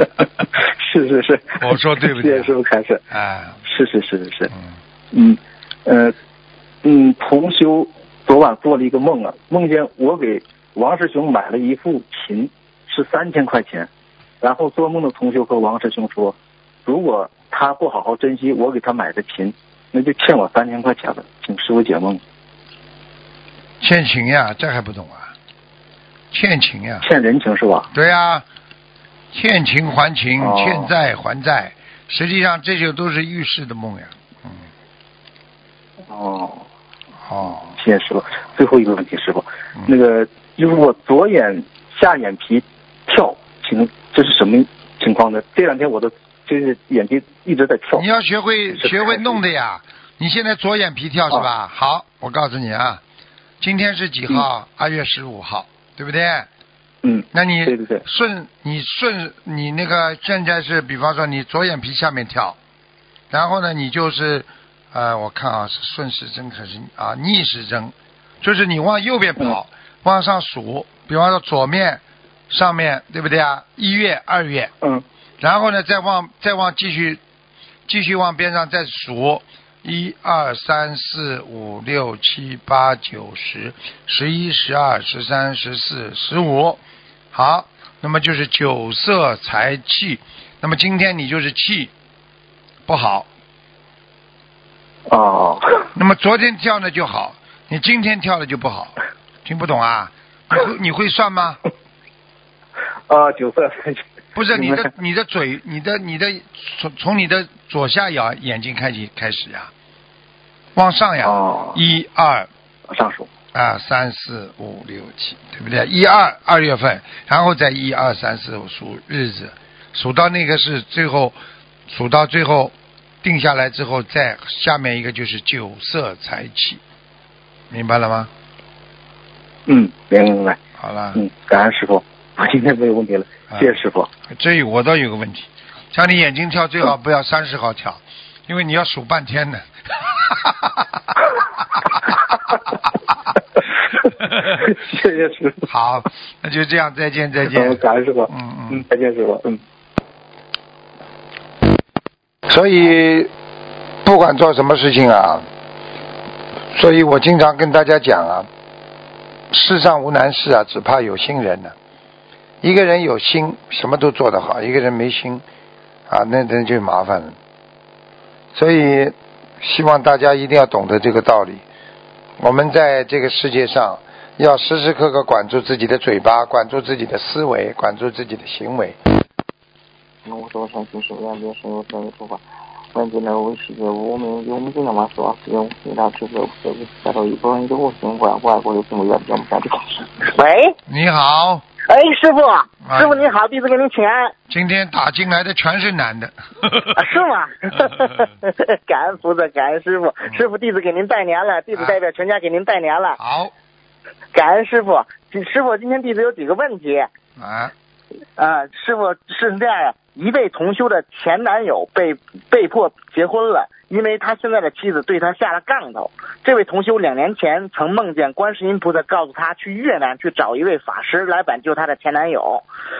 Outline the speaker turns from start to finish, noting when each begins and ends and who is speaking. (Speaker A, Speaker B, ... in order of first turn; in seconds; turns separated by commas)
Speaker A: 0.6-3.0, Speaker B: 1.6-2.5, Speaker B: 3.1-3.6, Speaker A: 3.6-4.5, Speaker A: 5.1-6.2, Speaker A: 6.8-13.9, Speaker A: 14.4-22.2, Speaker B: 23.8-25.3, Speaker B: 26.3-27.1, Speaker A: 27.0-27.9, Speaker B: 27.9-28.4, Speaker B: 29.3-34.6, Speaker A: 30.4-30.9, Speaker A: 36.1-36.7, Speaker B: 37.3-37.8, Speaker A: 37.7-48.0, Speaker B: 48.0-53.0, Speaker A: 48.8-49.4, Speaker B: 53.6-56.5, Speaker A: 57.0-58.0, Speaker B: 57.3-62.6, Speaker B: 63.3-74.7, Speaker B: 75.4-77.2, Speaker B: 77.9-86.8, Speaker B: 87.3-91.9, Speaker B: 92.9-93.3, Speaker A: 95.1-95.9, Speaker B: 95.9-101.6, Speaker A: 103.1-104.0, Speaker B: 104.3-109.7, Speaker A: 104.5-104.9, Speaker B: 110.8-112.5, Speaker A: 111.2-111.8, Speaker A: 112.9-113.3, Speaker B: 113.5-121.3, Speaker B: 121.9-126.8, Speaker B: 127.7-128.3, Speaker A: 129.7-130.6, Speaker B: 130.8-131.2, Speaker A: 131.2-134.1, Speaker B: 133.5-133.8, Speaker B: 134.3-142.2, Speaker B: 144.2-144.7, Speaker A: 144.4-145.7, Speaker B: 145.7-148.8, Speaker A: 147.5-149.6, Speaker B: 152.5-153.3, Speaker B: 154.0-155.4, Speaker B: 156.7-158.5, Speaker B: 159.5-161.7, Speaker B: 162.6-165.4, Speaker B: 166.1-167.4, Speaker B: 168.5-171.6, Speaker B: 172.4-179.0, Speaker C: 180.2-190.1, Speaker D: 190.2-190.8, Speaker B: 190.9-191.6, Speaker D: 191.9-194.3, Speaker B: 192.8-193.3, Speaker B: 194.5-197.1, Speaker D: 197.0-203.2, Speaker B: 203.2-203.5, Speaker D: 204.3-207.1, Speaker B: 207.4-207.7, Speaker D: 208.4-222.7